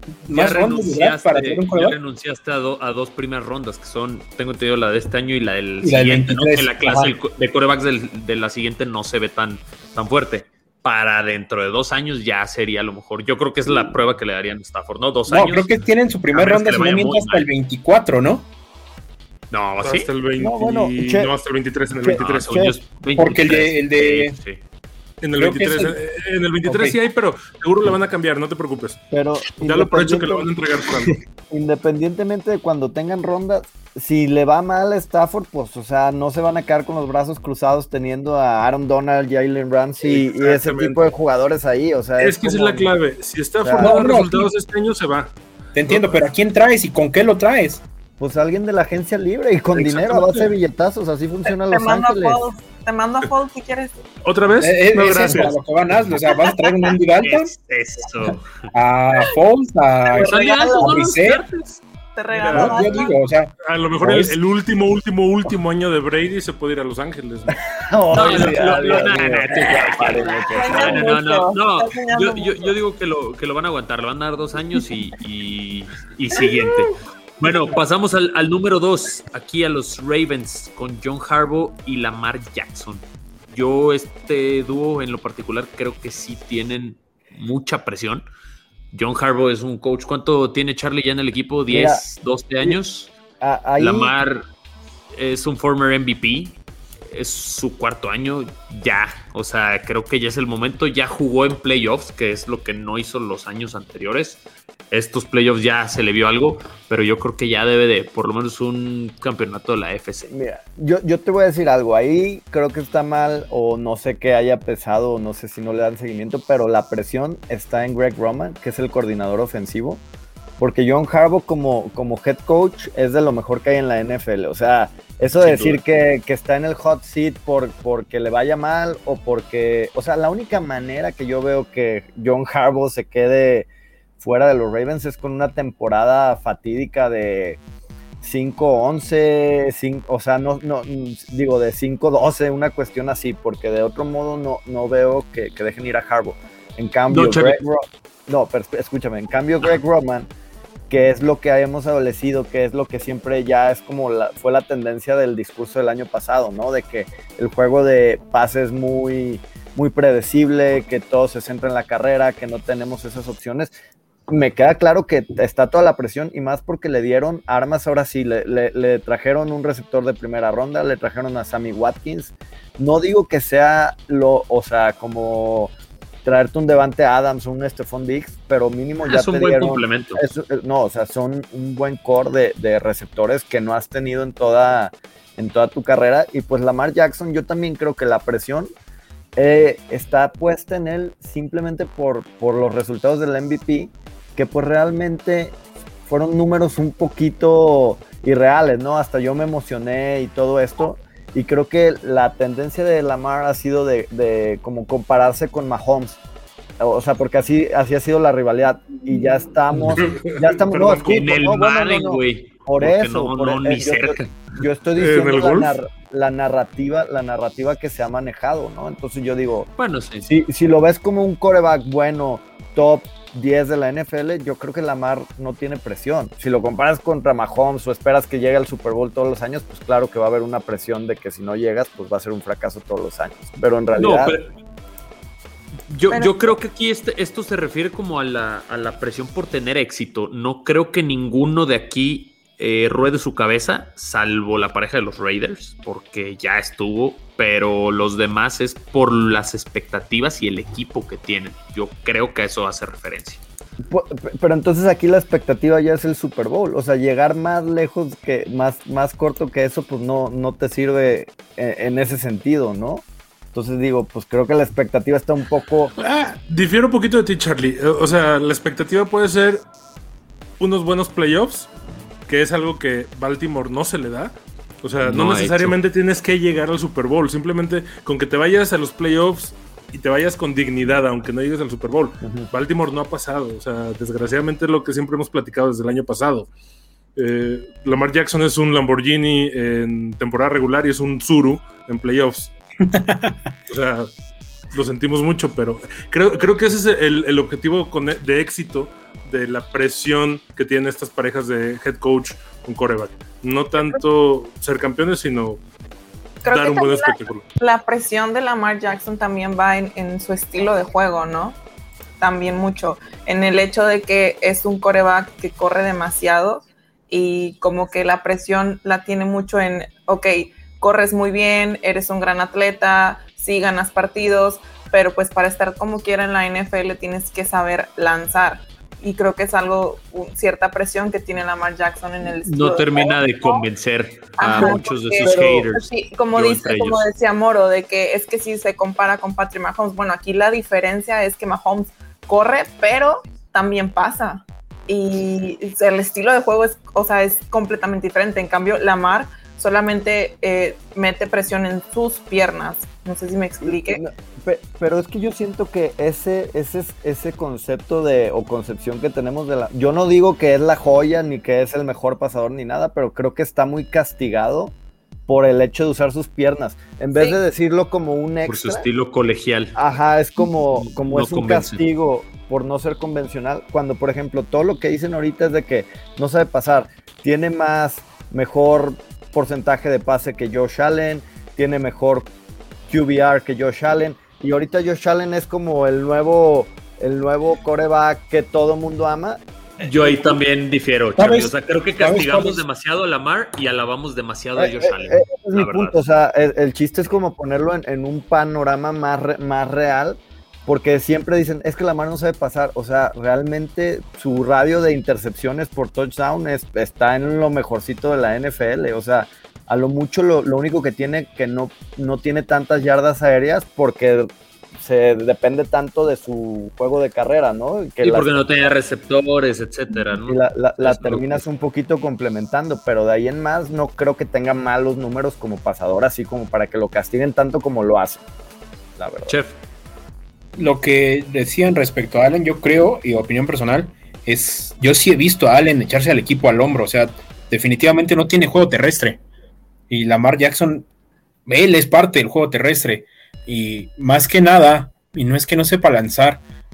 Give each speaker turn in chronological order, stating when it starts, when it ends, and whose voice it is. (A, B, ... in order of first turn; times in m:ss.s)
0:00.3-0:02.0 A
0:00.3-0:15.8 B
0:05.8-0:07.1 A
0:15.3-0:18.5 A
0:16.3-0:17.5 B
0:19.5-0:20.1 B
0:19.8-0:22.8 C
0:20.4-0:21.3 D
0:22.0-0:22.8 D
0:22.2-0:24.6 B
0:23.2-0:24.4 A
0:25.2-0:29.0 C
0:25.4-0:26.0 A
0:26.6-0:27.0 A
0:29.1-0:30.5 D
0:29.6-0:31.2 C
0:31.5-0:42.9 D
0:40.0-0:41.1 C
0:42.2-0:45.4 C
0:43.6-0:44.0 D
0:43.8-0:44.5 A
0:45.7-0:47.8 A
0:45.9-0:46.2 C
0:48.2-0:52.4 D
0:49.8-0:50.5 C
0:51.5-0:54.0 E
0:54.2-0:55.6 C
0:54.6-0:57.5 A
0:56.2-0:56.9 E
0:57.2-0:58.6 B
0:58.7-1:01.5 A
1:00.1-1:01.1 E
1:00.1-1:01.8 B
1:02.2-1:03.2 E
1:02.3-1:03.0 C
1:02.5-1:04.4 A
1:03.6-1:07.6 C
1:07.7-1:11.1 D
1:08.1-1:09.0 C
1:08.1-1:28.2 B
1:10.5-1:12.7 E
1:28.9-1:33.1 B
1:31.7-1:32.0 D
1:33.4-1:34.1 D
1:33.8-1:34.4 B
1:35.1-1:50.3 B
1:50.3-2:00.0 D
2:00.6-2:13.7 D
2:05.4-2:05.8 B
2:14.2-2:17.6 D
2:18.2-2:30.3 D
2:27.1-2:27.6 B
2:30.9-2:43.7 D
2:44.3-2:55.7 D
2:56.2-3:08.7 D
2:59.0-3:00.2 B
3:09.4-3:26.2 D
3:26.8-3:39.7 D
3:29.9-3:31.3 C
3:31.1-3:34.4 B
3:35.0-3:35.8 C
3:39.8-3:40.3 B
3:40.3-3:54.4 D
3:53.9-3:54.5 B
3:55.9-4:13.4 B
3:56.1-3:56.6 E
4:13.8-4:25.9 D
4:26.0-4:29.6 C
4:30.6-4:31.7 C
4:32.3-4:46.5 C
4:35.0-4:35.8 B
4:42.2-4:42.5 D
4:47.2-4:52.5 C
4:52.8-4:53.4 A
4:53.7-4:54.1 C
4:54.7-5:05.6 C
5:03.8-5:04.0 E
5:06.4-5:07.4 C
5:06.4-5:11.6 E
5:12.2-5:33.6 E
5:32.4-5:37.0 B
5:34.4-5:54.0 E
5:34.6-5:35.7 D
5:53.6-6:04.8 D
6:05.3-6:08.9 D
6:07.1-6:07.4 E
6:08.5-6:09.8 B
6:09.8-6:22.3 D
6:10.6-6:11.8 B
6:22.9-6:30.4 D
6:29.8-6:36.0 B
6:31.2-6:32.6 A
6:34.6-6:58.4 D
6:58.0-7:01.5 B
7:00.3-7:08.3 D
7:09.0-7:09.3 D
7:09.3-7:09.6 B
7:10.6-7:19.2 A
7:19.9-7:20.9 A
7:21.5-7:26.4 A